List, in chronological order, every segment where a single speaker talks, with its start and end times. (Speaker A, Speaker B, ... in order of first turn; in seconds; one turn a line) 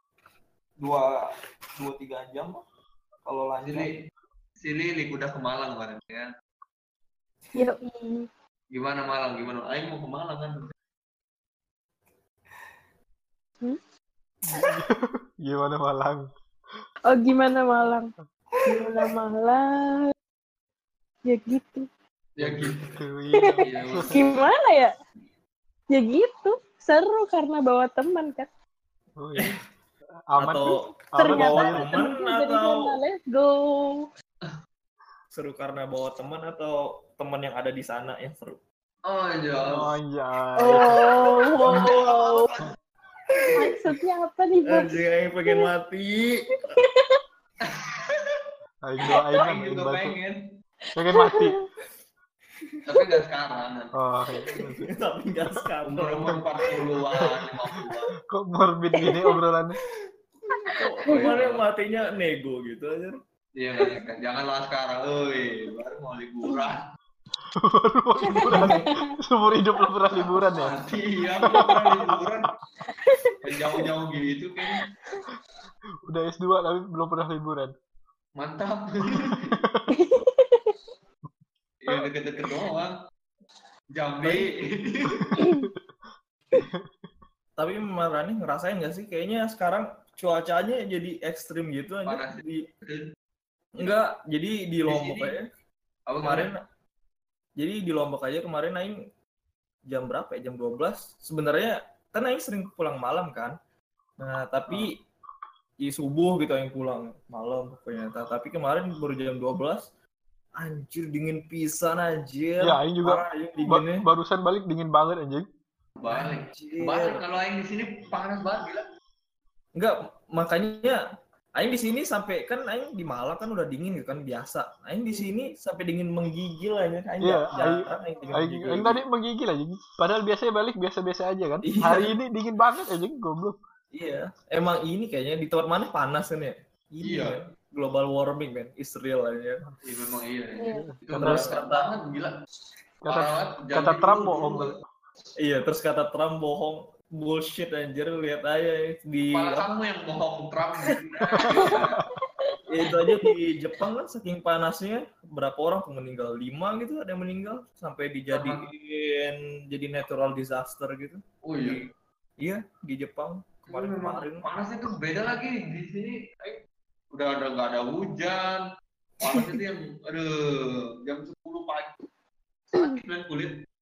Speaker A: 0.8-2.6
Speaker A: 3.2-3.9
Speaker B: 3.6-4.0
Speaker B: 4.6-6.3
Speaker C: 7.5-8.3
Speaker B: 8.7-10.7
Speaker D: 14.4-16.3
Speaker C: 17.1-18.1
Speaker A: 18.6-18.8
Speaker C: 18.6-20.1
Speaker C: 21.2-21.9
Speaker B: 22.4-22.8
Speaker D: 22.4-24.3
Speaker C: 23.4-24.9
Speaker B: 23.6-24.3
Speaker C: 25.9-28.5
Speaker D: 29.2-29.6
Speaker D: 30.3-32.0
Speaker A: 30.4-33.0
Speaker C: 31.1-34.1
Speaker A: 35.3-38.6
Speaker B: 39.0-39.9
Speaker D: 39.6-41.2
Speaker C: 40.6-42.5
Speaker A: 41.6-42.6
Speaker B: 41.6-42.2
Speaker A: 43.3-43.9
Speaker C: 43.5-45.7
Speaker A: 44.6-46.5
Speaker C: 46.8-47.2
Speaker B: 47.6-48.5
Speaker D: 48.8-50.2
Speaker B: 49.3-50.5
Speaker D: 50.9-51.5
Speaker C: 51.1-51.6
Speaker A: 52.7-53.1
Speaker B: 52.9-53.9
Speaker D: 53.9-54.9
Speaker A: 54.5-56.7
Speaker B: 55.8-58.1
Speaker D: 57.1-57.5
Speaker D: 58.3-59.8
Speaker C: 59.0-59.3
Speaker C: 60.5-61.3
Speaker A: 60.6-63.2
Speaker B: 61.0-61.6
Speaker B: 63.5-66.8
Speaker D: 67.5-70.8
Speaker C: 68.3-69.1
Speaker A: 68.5-68.8
Speaker B: 70.2-72.5
Speaker C: 72.9-73.8
Speaker B: 73.4-74.9
Speaker D: 76.0-77.7
Speaker B: 78.3-79.6
Speaker D: 79.5-79.8
Speaker C: 79.9-80.7
Speaker B: 81.8-83.0
Speaker B: 83.9-85.4
Speaker A: 84.2-84.5
Speaker C: 85.3-85.7
Speaker D: 86.5-86.9
Speaker A: 87.6-92.7
Speaker B: 92.0-93.1
Speaker A: 93.7-95.5
Speaker B: 94.8-95.3
Speaker B: 96.1-96.5
Speaker A: 96.2-96.6
Speaker A: 97.6-99.1
Speaker A: 99.8-103.6
Speaker A: 104.2-105.0
Speaker A: 105.8-109.9
Speaker A: 110.5-114.0
Speaker D: 112.6-115.5
Speaker B: 116.0-118.8
Speaker A: 116.1-117.2
Speaker A: 119.7-121.0
Speaker A: 121.5-129.0
Speaker D: 127.2-133.6
Speaker A: 131.6-132.1
Speaker A: 133.9-139.6
Speaker B: 137.0-137.4
Speaker B: 139.8-142.3
Speaker C: 140.6-140.9
Speaker D: 140.7-141.4
Speaker A: 141.1-141.9
Speaker D: 143.0-144.8
Speaker B: 143.1-144.8
Speaker A: 145.4-149.8
Speaker B: 149.3-152.0
Speaker A: 150.8-151.8
Speaker C: 151.5-153.3
Speaker A: 152.7-161.9
Speaker B: 158.3-158.6
Speaker B: 161.4-161.9
Speaker A: 162.4-164.5
Speaker B: 163.7-166.6
Speaker B: 167.1-168.7
Speaker B: 169.2-171.9
Speaker A: 169.2-169.6
Speaker B: 172.7-173.6